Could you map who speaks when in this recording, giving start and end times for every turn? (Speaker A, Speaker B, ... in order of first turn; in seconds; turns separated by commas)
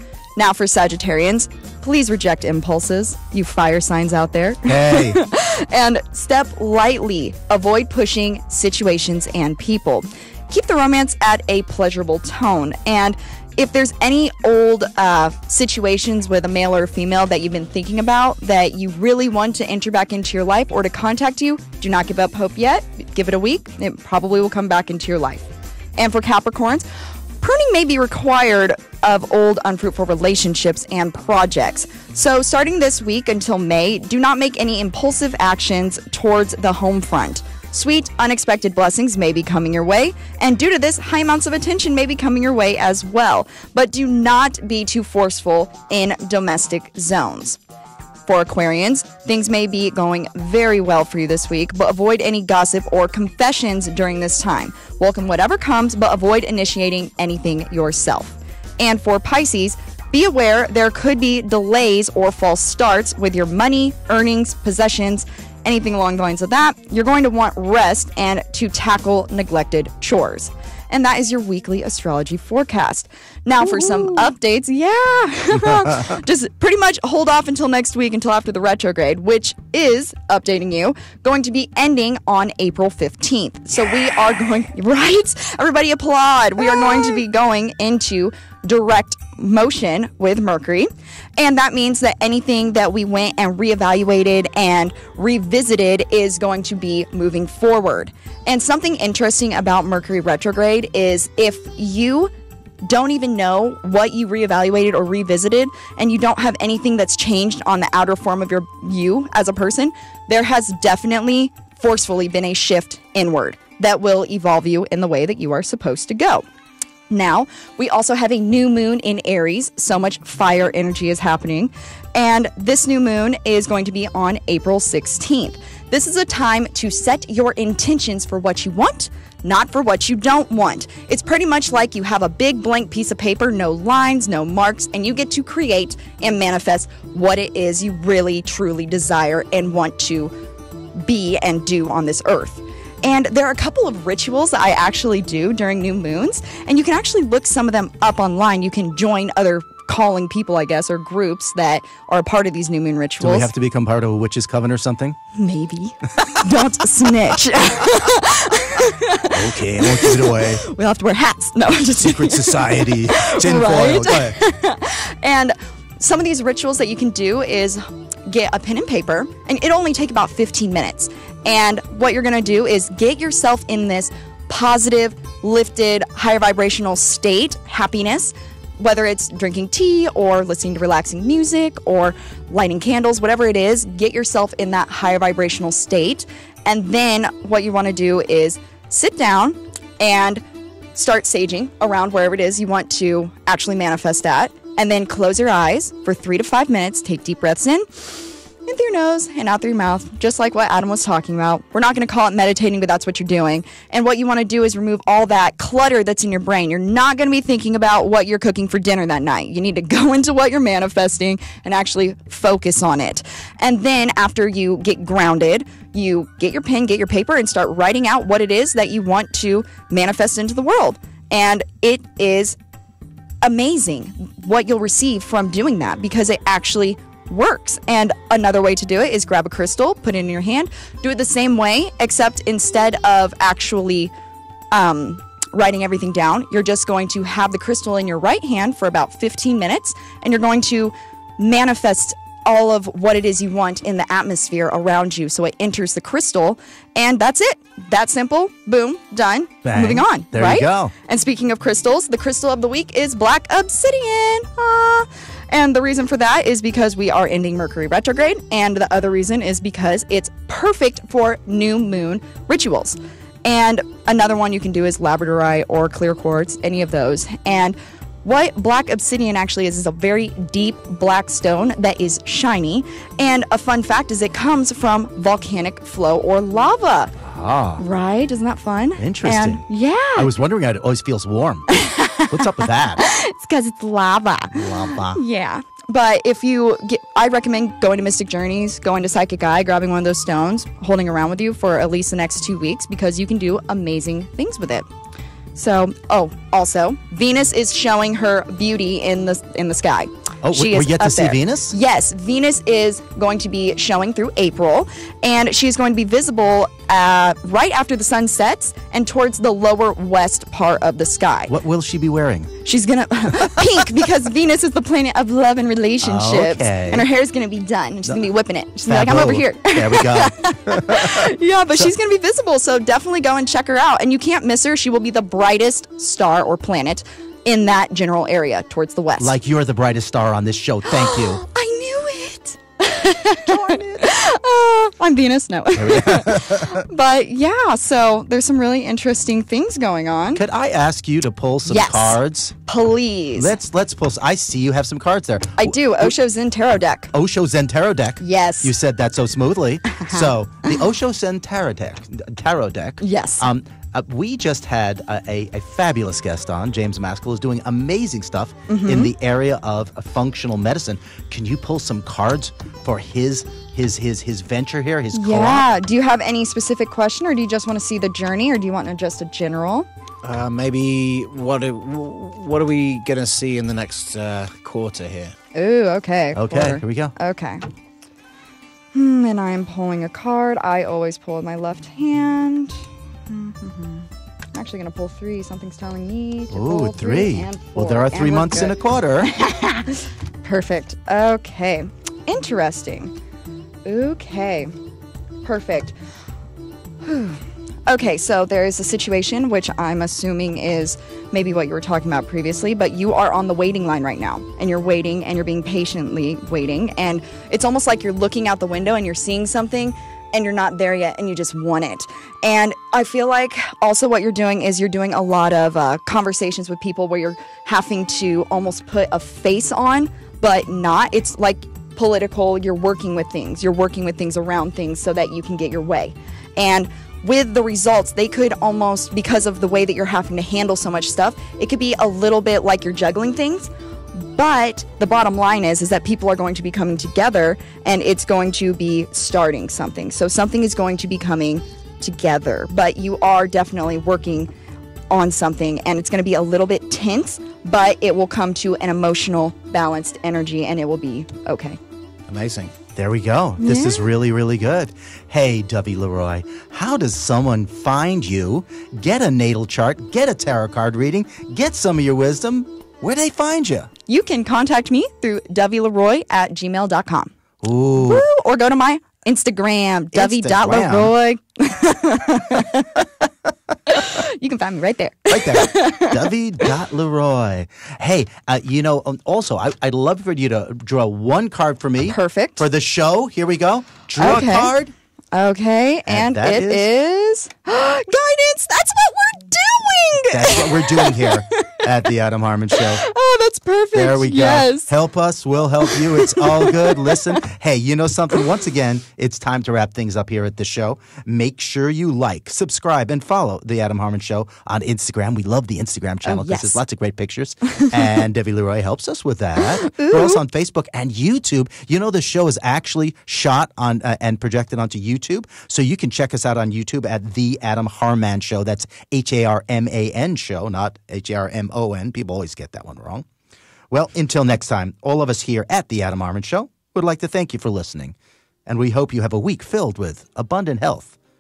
Speaker A: 0.3-26.9, Speaker B: 4.7-5.2, Speaker A: 27.4-47.6, Speaker A: 48.2-102.3, Speaker B: 73.8-74.1, Speaker A: 102.8-116.4, Speaker A: 117.1-140.3, Speaker A: 141.0-153.5, Speaker B: 153.2-155.2, Speaker A: 155.3-190.4, Speaker B: 159.3-160.6, Speaker B: 162.0-164.3, Speaker A: 190.9-198.1, Speaker A: 198.6-222.6, Speaker A: 223.4-234.1, Speaker A: 234.7-277.1, Speaker B: 249.6-250.9, Speaker B: 277.2-277.8, Speaker A: 277.8-280.3, Speaker B: 279.0-279.6, Speaker B: 280.1-281.7, Speaker A: 281.7-282.4, Speaker B: 282.3-283.0, Speaker A: 283.0-294.9, Speaker B: 284.5-285.2, Speaker A: 295.5-311.5, Speaker B: 300.4-301.7, Speaker B: 311.5-312.5, Speaker A: 312.6-329.3, Speaker B: 313.4-313.8, Speaker B: 316.0-317.1, Speaker B: 318.9-321.9, Speaker B: 329.2-331.4, Speaker A: 330.9-340.4, Speaker B: 333.4-334.1, Speaker B: 335.7-336.8, Speaker B: 340.3-342.6, Speaker A: 341.7-343.5, Speaker B: 343.3-346.1, Speaker A: 345.6-347.1, Speaker B: 347.1-365.6, Speaker A: 348.2-348.7, Speaker A: 350.0-350.8, Speaker A: 353.0-353.5, Speaker A: 358.7-359.1, Speaker A: 365.1-369.9, Speaker C: 370.2-375.3, Speaker A: 375.5-377.6, Speaker B: 376.3-377.1, Speaker A: 378.9-393.1, Speaker B: 386.5-389.3, Speaker A: 393.8-394.7, Speaker A: 395.4-395.9, Speaker A: 397.0-444.5, Speaker A: 445.1-451.8, Speaker C: 452.3-452.7, Speaker B: 452.9-463.9, Speaker A: 453.6-454.1, Speaker A: 464.1-467.3, Speaker B: 467.6-468.2, Speaker A: 467.9-473.3, Speaker B: 470.1-471.1, Speaker A: 473.9-476.7, Speaker B: 475.3-484.9, Speaker A: 482.1-482.6, Speaker A: 484.2-484.7, Speaker A: 485.3-491.9, Speaker B: 486.1-486.9, Speaker B: 490.3-493.0, Speaker A: 492.8-494.9, Speaker B: 493.9-523.3, Speaker A: 495.9-497.3, Speaker A: 506.2-506.8, Speaker A: 509.8-510.4, Speaker B: 523.9-528.1, Speaker B: 528.7-531.2